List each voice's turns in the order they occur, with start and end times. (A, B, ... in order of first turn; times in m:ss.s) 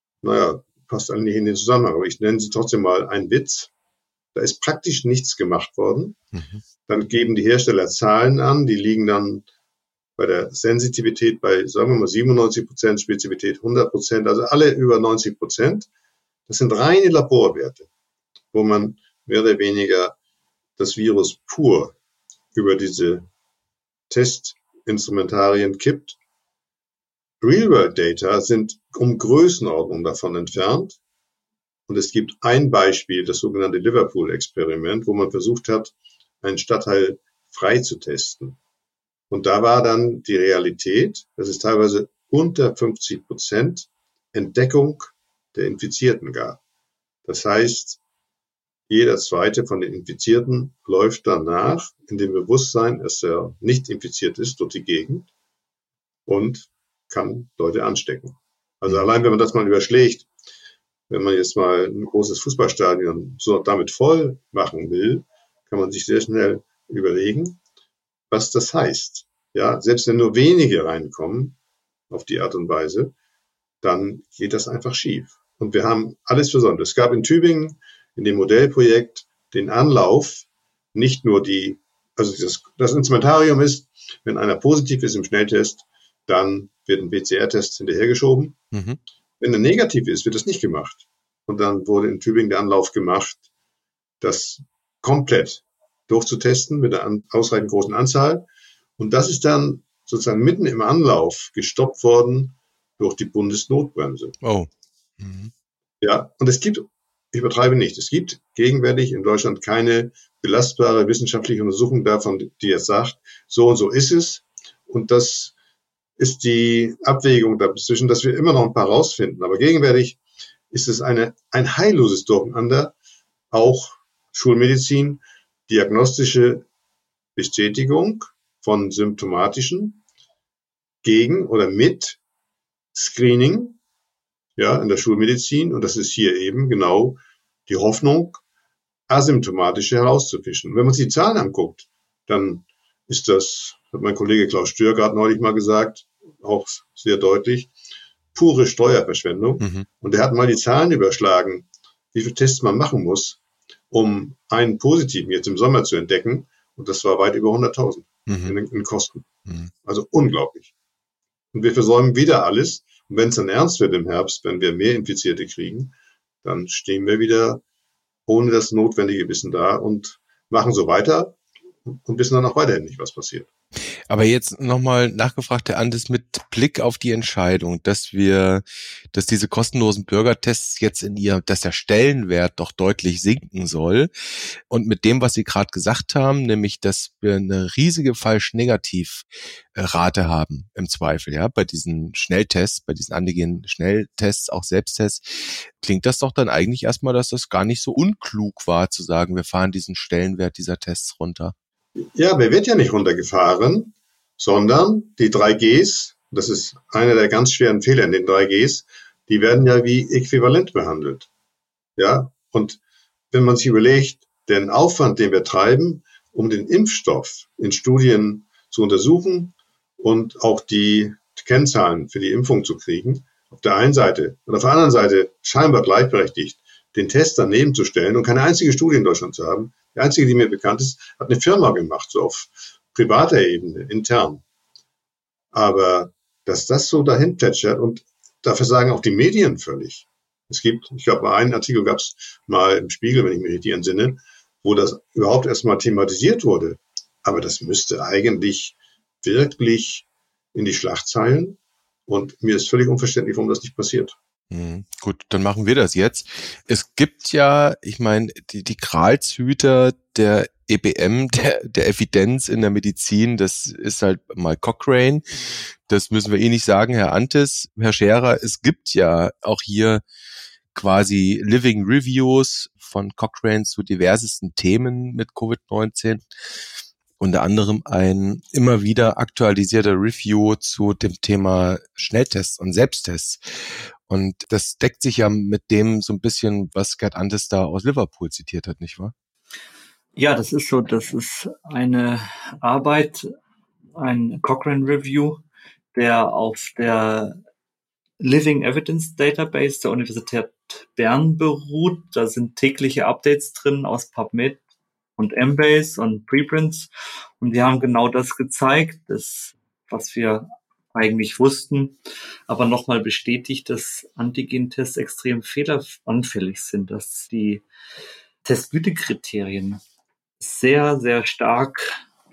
0:00.2-0:03.7 A
0:04.3-0:06.2 A
0:06.3-0:06.6 B
0:06.9-0:09.4 A
0:10.2-0:15.9 A
0:16.5-0:17.9 A
0:18.5-0:20.2 A
0:20.8-0:22.0 A
0:22.6-0:23.3 A
0:24.1-0:26.2 A
0:27.4-0:31.0 A
0:31.9-0:38.6 A
0:39.3-0:46.6 A
0:47.3-0:48.0 A
0:48.9-0:55.3 A
0:56.3-1:00.3 A
1:01.1-1:07.6 A
1:08.3-1:11.6 A
1:12.1-1:13.1 A
1:13.8-1:28.6 A
1:28.7-1:29.0 B
1:29.4-1:33.4 A
1:34.2-1:38.4 A
1:39.0-1:44.4 A
1:44.4-1:45.5 B
1:46.0-1:55.5 A
1:56.2-2:00.2 A
2:00.7-2:02.9 A
2:03.5-2:06.7 A
2:07.4-2:10.0 A
2:11.0-2:12.2 A
2:13.0-2:13.8 A
2:14.6-2:18.4 A
2:19.1-2:27.7 A
2:28.4-2:33.4 A
2:29.6-2:29.9 B
2:33.9-2:39.3 A
2:38.3-2:38.5 B
2:39.8-2:40.7 A
2:41.5-2:47.6 A
2:48.3-2:53.5 A
2:54.1-3:04.1 B
3:04.7-3:21.5 B
3:22.0-3:31.3 A
3:32.0-3:32.8 A
3:33.3-3:54.4 A
3:55.5-4:14.2 A
4:14.5-4:25.2 B
4:25.9-4:30.0 B
4:30.8-4:36.2 B
4:37.2-4:49.1 B
4:50.2-4:53.3 C
4:54.0-4:55.4 C
4:55.9-4:57.4 C
4:58.2-5:04.6 C
5:05.2-5:06.9 C
5:07.4-5:12.0 C
5:12.5-5:17.6 C
5:18.4-5:19.8 C
5:20.4-5:22.0 C